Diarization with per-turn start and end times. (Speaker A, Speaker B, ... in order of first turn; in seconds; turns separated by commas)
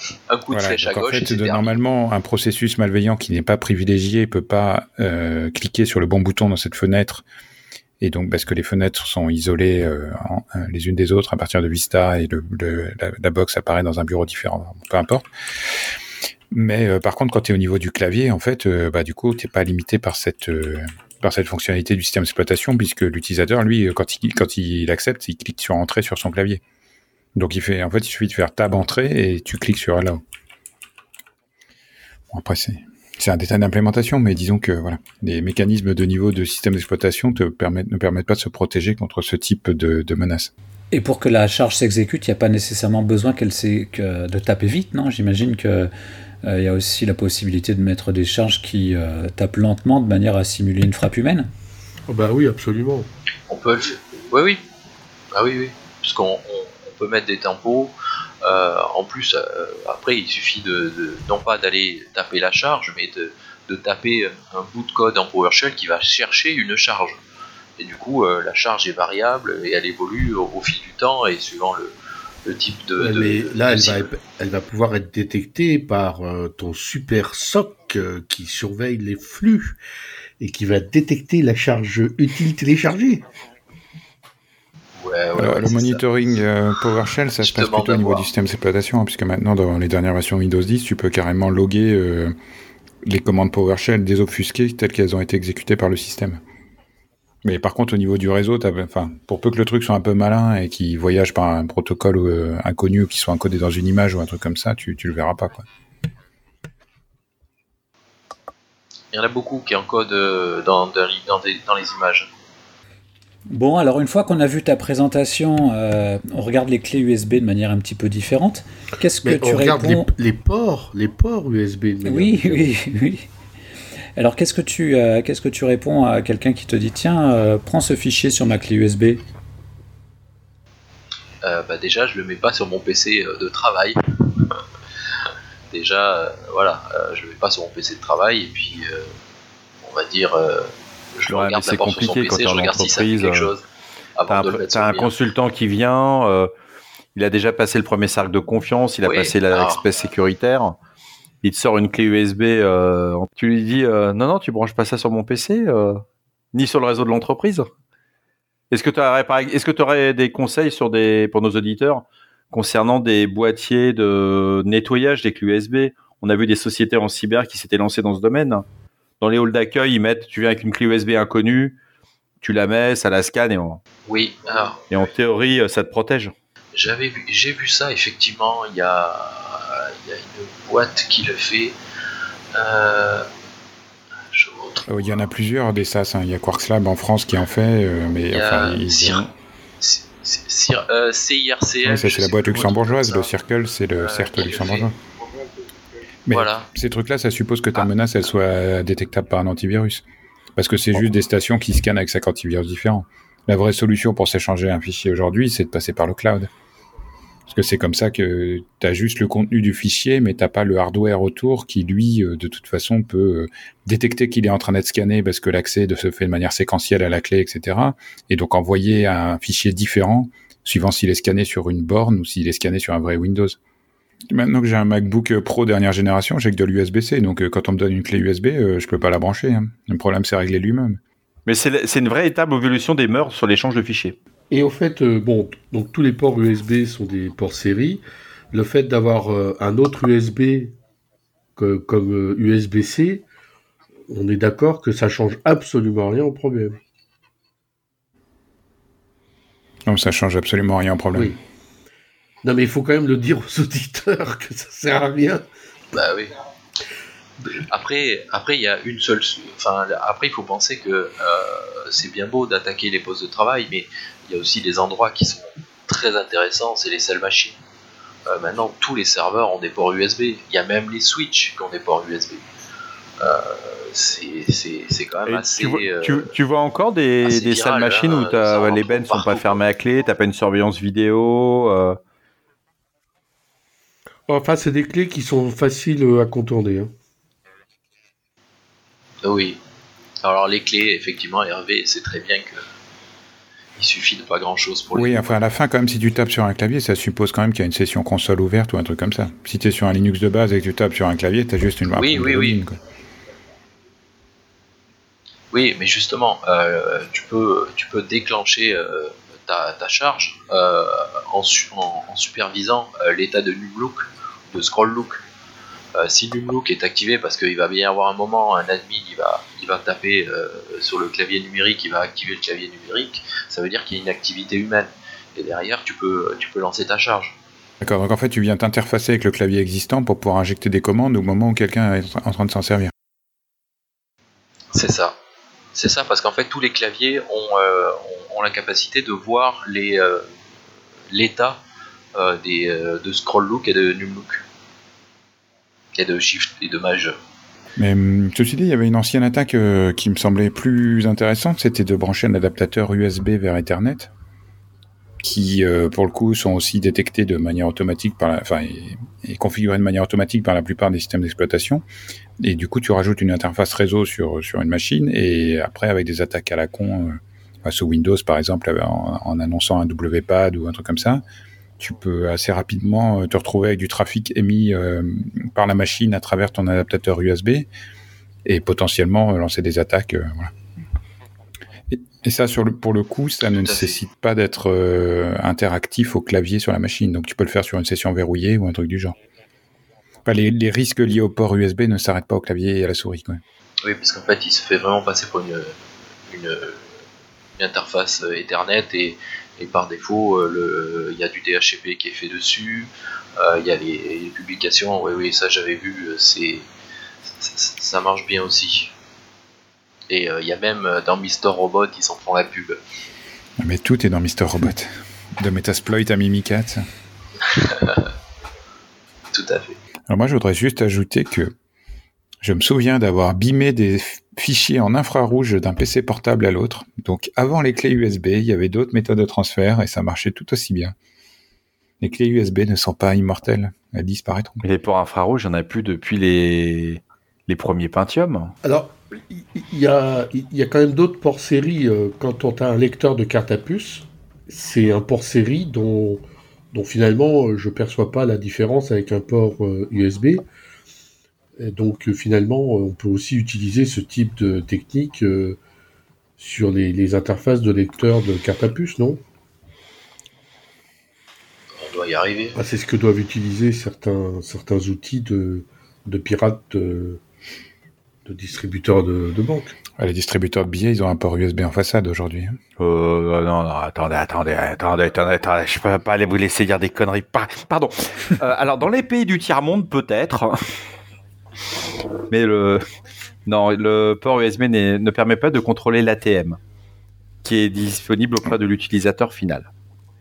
Speaker A: 0.3-1.7, Speaker B: 0.5-7.2, Speaker B: 8.0-15.2, Speaker B: 16.5-26.6, Speaker B: 27.3-30.2, Speaker B: 32.3-40.5, Speaker C: 40.9-45.9, Speaker C: 46.4-51.5, Speaker D: 52.1-53.1, Speaker A: 53.5-54.6, Speaker A: 55.3-57.9, Speaker A: 58.4-67.2, Speaker A: 67.8-71.9, Speaker A: 72.4-74.1, Speaker D: 73.0-79.8, Speaker D: 80.4-83.2, Speaker A: 85.0-86.0, Speaker B: 85.3-92.3, Speaker A: 87.4-88.2, Speaker B: 93.0-96.4, Speaker B: 97.4-105.7, Speaker A: 109.1-112.3, Speaker C: 113.5-120.1, Speaker D: 119.2-122.7, Speaker C: 122.0-123.2, Speaker C: 124.2-129.2, Speaker A: 131.4-134.5, Speaker A: 135.7-139.1, Speaker A: 139.8-143.7, Speaker E: 141.3-143.5, Speaker A: 144.2-145.1, Speaker E: 144.3-146.5, Speaker E: 147.1-150.8, Speaker A: 149.0-149.8, Speaker E: 151.4-157.7, Speaker E: 158.7-168.7, Speaker E: 169.2-171.8, Speaker E: 172.4-173.8, Speaker A: 174.1-174.8, Speaker E: 174.9-176.3, Speaker A: 176.7-181.7, Speaker A: 182.5-183.3, Speaker A: 184.3-184.9, Speaker B: 184.9-189.2, Speaker A: 188.3-189.3, Speaker A: 189.8-193.3, Speaker B: 191.8-194.9, Speaker A: 194.0-194.9, Speaker B: 196.3-200.0, Speaker A: 196.3-196.7, Speaker B: 200.6-206.5, Speaker B: 207.5-223.6, Speaker B: 224.3-231.0, Speaker E: 231.4-234.2, Speaker D: 234.5-240.7, Speaker D: 241.6-243.2, Speaker D: 244.1-246.8, Speaker B: 249.9-251.3, Speaker D: 252.4-255.4, Speaker A: 255.9-256.3, Speaker A: 257.7-267.6, Speaker A: 268.3-272.4, Speaker A: 273.2-276.3, Speaker E: 275.2-282.0, Speaker A: 277.2-279.6, Speaker D: 284.3-286.9, Speaker A: 289.2-289.6, Speaker A: 290.2-292.6, Speaker A: 293.8-295.2, Speaker B: 294.9-302.8, Speaker A: 301.9-302.6, Speaker A: 305.5-315.2, Speaker A: 315.9-327.4, Speaker B: 327.8-332.9, Speaker A: 334.7-335.1, Speaker A: 335.7-340.3, Speaker A: 341.1-341.6, Speaker A: 342.1-344.4, Speaker A: 345.9-347.1, Speaker B: 347.8-354.1, Speaker B: 355.2-361.8, Speaker B: 362.4-371.2, Speaker B: 371.8-377.7, Speaker B: 378.4-380.5, Speaker B: 381.9-389.2, Speaker A: 383.6-384.0, Speaker B: 390.2-393.4, Speaker A: 393.8-395.8, Speaker A: 396.3-396.8, Speaker A: 397.6-406.6, Speaker A: 407.3-408.9, Speaker A: 410.1-412.8, Speaker B: 413.6-416.8, Speaker A: 417.4-418.1, Speaker A: 419.3-419.8, Speaker B: 420.1-421.5, Speaker B: 422.4-430.9, Speaker B: 432.0-434.6, Speaker E: 434.6-438.5, Speaker D: 438.6-450.5, Speaker D: 451.6-455.6, Speaker D: 456.4-459.2, Speaker A: 461.8-462.6, Speaker D: 462.6-467.2, Speaker D: 468.2-469.8, Speaker B: 470.0-472.6, Speaker E: 472.8-480.6, Speaker E: 482.3-482.8, Speaker E: 483.4-486.6, Speaker E: 487.4-489.7